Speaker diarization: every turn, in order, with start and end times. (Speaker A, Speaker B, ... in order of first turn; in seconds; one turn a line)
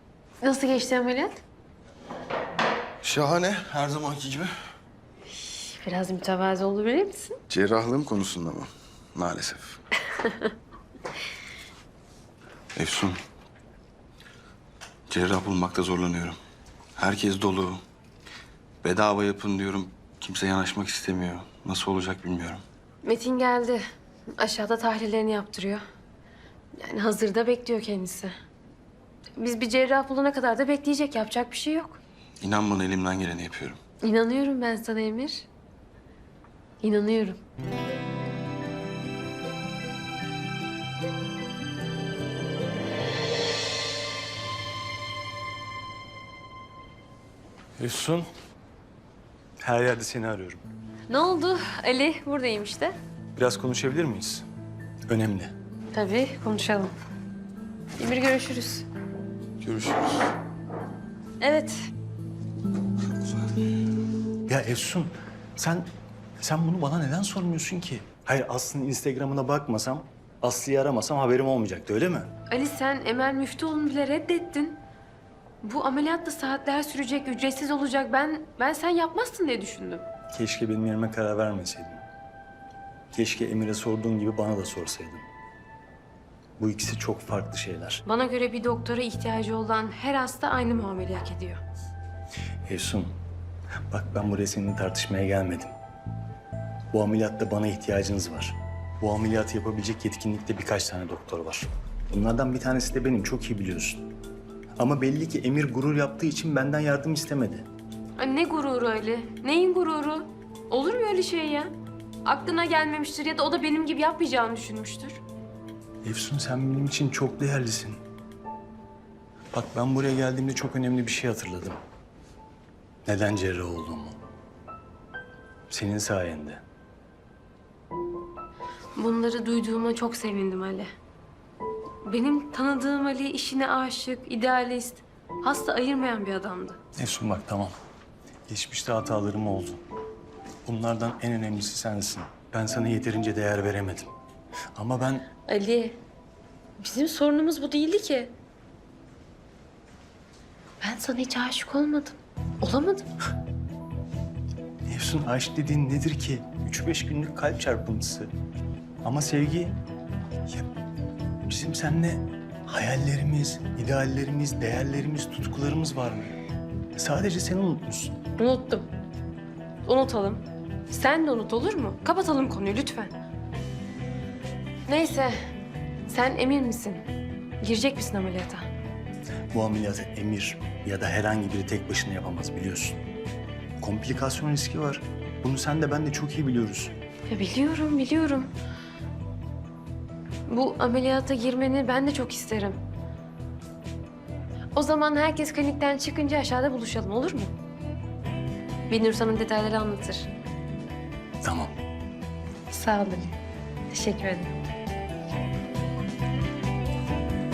Speaker A: 0.4-1.4
Speaker B: 3.0-4.5
Speaker A: 5.4-7.3
Speaker B: 7.5-9.8
Speaker B: 12.8-13.2
Speaker B: 15.1-16.4
Speaker B: 16.9-17.8
Speaker B: 18.8-22.6
Speaker A: 23.0-23.8
Speaker A: 24.4-25.8
Speaker A: 26.8-28.3
Speaker A: 29.4-32.0
Speaker B: 32.4-33.8
Speaker A: 34.0-35.5
Speaker A: 36.8-37.4
Speaker C: 47.8-48.3
Speaker C: 49.6-50.6
Speaker A: 51.1-52.9
Speaker C: 53.4-54.5
Speaker C: 55.1-55.5
Speaker A: 55.9-56.9
Speaker A: 58.0-58.9
Speaker B: 59.6-60.3
Speaker A: 61.4-61.8
Speaker C: 64.5-65.9
Speaker C: 66.4-72.3
Speaker A: 72.5-74.8
Speaker A: 75.6-80.0
Speaker C: 80.3-82.0
Speaker C: 83.1-85.2
Speaker C: 86.6-88.0
Speaker A: 88.0-91.6
Speaker C: 92.7-93.1
Speaker C: 93.9-95.7
Speaker C: 96.9-104.0
Speaker C: 104.8-107.7
Speaker A: 108.2-111.7
Speaker A: 112.2-115.2
Speaker C: 116.0-118.0
Speaker C: 119.5-121.8
Speaker C: 123.0-124.2
Speaker C: 125.7-126.6
Speaker A: 128.9-130.9
Speaker A: 132.1-136.8
Speaker C: 136.9-137.7
Speaker C: 138.5-139.8
Speaker C: 140.7-144.1
Speaker C: 144.8-145.3
Speaker A: 145.5-146.0
Speaker A: 146.8-148.3
Speaker A: 150.8-153.1
Speaker C: 154.8-158.3
Speaker C: 159.0-159.8
Speaker C: 161.5-166.3
Speaker C: 167.0-168.2
Speaker A: 168.3-168.9
Speaker A: 169.8-173.1
Speaker A: 174.9-175.3
Speaker A: 176.1-177.1
Speaker A: 177.6-178.7
Speaker C: 179.5-183.0
Speaker C: 183.8-186.9
Speaker A: 187.3-188.5
Speaker A: 190.5-192.8
Speaker A: 194.7-197.5
Speaker A: 198.9-200.3
Speaker C: 201.4-201.7
Speaker A: 202.7-203.3
Speaker A: 203.9-204.5